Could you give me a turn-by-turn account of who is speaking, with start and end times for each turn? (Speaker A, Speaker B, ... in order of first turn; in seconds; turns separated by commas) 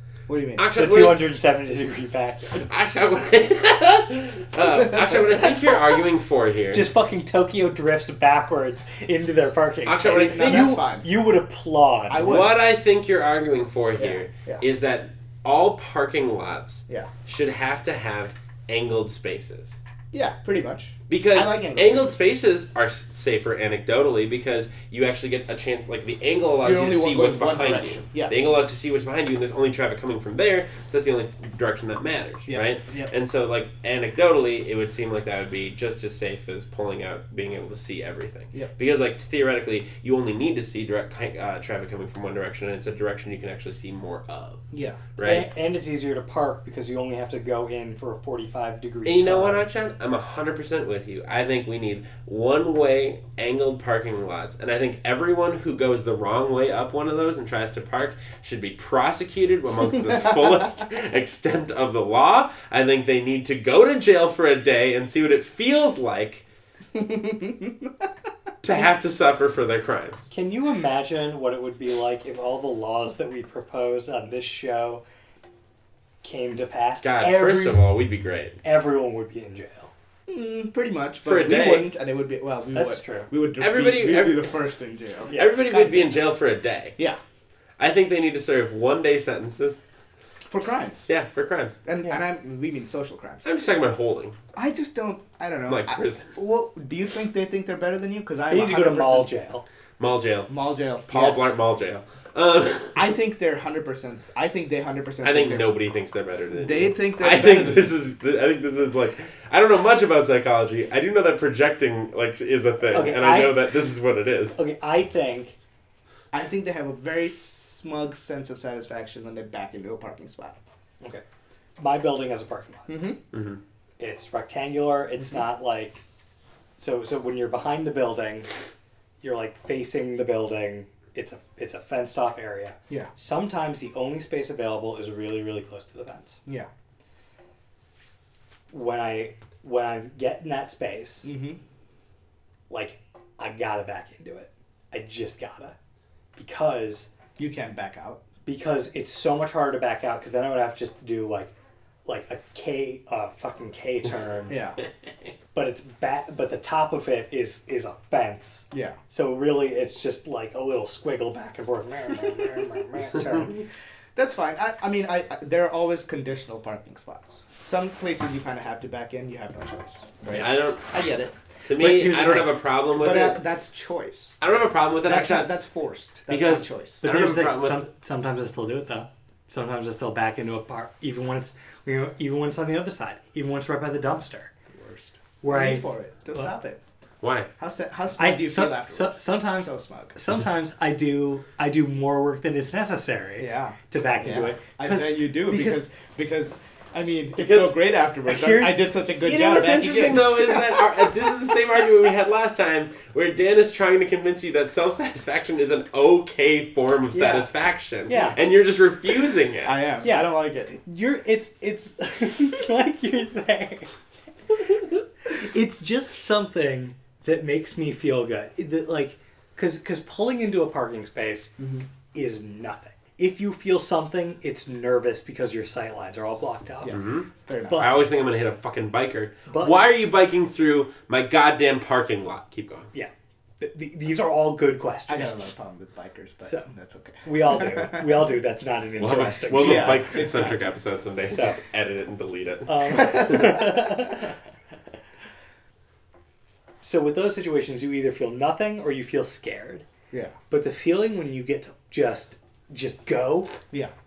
Speaker A: 0.3-0.7, Speaker B: 0.6-1.3, Speaker C: 0.8-2.7, Speaker B: 2.6-6.9, Speaker A: 4.9-5.3, Speaker C: 6.7-12.3, Speaker B: 9.9-10.7, Speaker A: 10.0-11.1, Speaker A: 12.1-12.6, Speaker B: 12.2-19.8, Speaker A: 14.0-14.6, Speaker A: 20.1-22.2, Speaker B: 21.1-44.6, Speaker A: 26.6-28.4, Speaker A: 32.5-33.1, Speaker A: 44.7-45.0, Speaker B: 45.2-45.5, Speaker C: 45.2-49.7, Speaker B: 49.1-66.5, Speaker A: 66.9-68.1, Speaker B: 68.6-70.3, Speaker C: 70.3-75.0, Speaker C: 76.2-77.8, Speaker B: 77.0-78.6, Speaker C: 78.6-79.9, Speaker A: 80.3-86.2, Speaker B: 81.2-81.9, Speaker C: 82.7-83.3, Speaker B: 83.6-84.5, Speaker B: 85.3-87.0, Speaker B: 87.8-89.8, Speaker A: 90.5-91.1, Speaker B: 91.1-91.8, Speaker A: 91.8-93.5, Speaker B: 93.4-94.4, Speaker A: 94.5-99.3, Speaker B: 95.7-96.3, Speaker C: 98.5-99.7, Speaker B: 100.0-100.5, Speaker A: 100.5-101.5, Speaker B: 101.1-103.1, Speaker A: 103.0-105.7, Speaker B: 105.2-114.6, Speaker A: 106.6-107.9, Speaker C: 112.9-113.6, Speaker C: 114.6-115.5, Speaker A: 116.3-120.6, Speaker C: 121.8-123.0, Speaker A: 122.9-123.2, Speaker B: 123.3-123.6, Speaker C: 124.0-126.0, Speaker C: 126.8-128.5, Speaker C: 129.2-136.4, Speaker C: 138.7-141.3, Speaker A: 141.2-141.6, Speaker C: 142.7-145.8, Speaker C: 146.4-147.1, Speaker A: 147.4-148.2, Speaker C: 148.4-151.5, Speaker C: 152.1-154.6, Speaker A: 154.5-154.8, Speaker C: 155.6-163.6, Speaker A: 158.7-159.0, Speaker A: 164.2-171.3, Speaker B: 170.3-170.9, Speaker B: 171.7-173.4, Speaker C: 171.8-172.5, Speaker A: 173.0-174.3, Speaker B: 174.4-175.5, Speaker A: 175.0-177.0, Speaker B: 176.3-177.8, Speaker C: 177.0-184.5, Speaker A: 184.7-186.8, Speaker C: 185.4-186.5, Speaker B: 187.2-187.5, Speaker A: 187.6-190.2, Speaker C: 188.2-195.8, Speaker A: 193.4-200.8, Speaker B: 197.4-197.8, Speaker C: 198.3-198.9, Speaker B: 199.2-209.8, Speaker C: 207.1-207.5, Speaker C: 208.1-208.4, Speaker A: 209.6-210.8, Speaker C: 210.0-213.9, Speaker C: 215.3-221.6, Speaker A: 221.6-221.8, Speaker C: 222.1-227.0, Speaker A: 226.8-227.9, Speaker B: 226.9-232.9, Speaker C: 229.5-229.8, Speaker C: 232.9-235.5, Speaker A: 235.1-238.2, Speaker C: 236.4-236.7, Speaker C: 237.2-240.2, Speaker B: 239.0-243.7, Speaker A: 239.6-240.7, Speaker C: 241.3-241.6, Speaker C: 242.7-244.3, Speaker C: 246.8-249.8, Speaker C: 250.5-253.6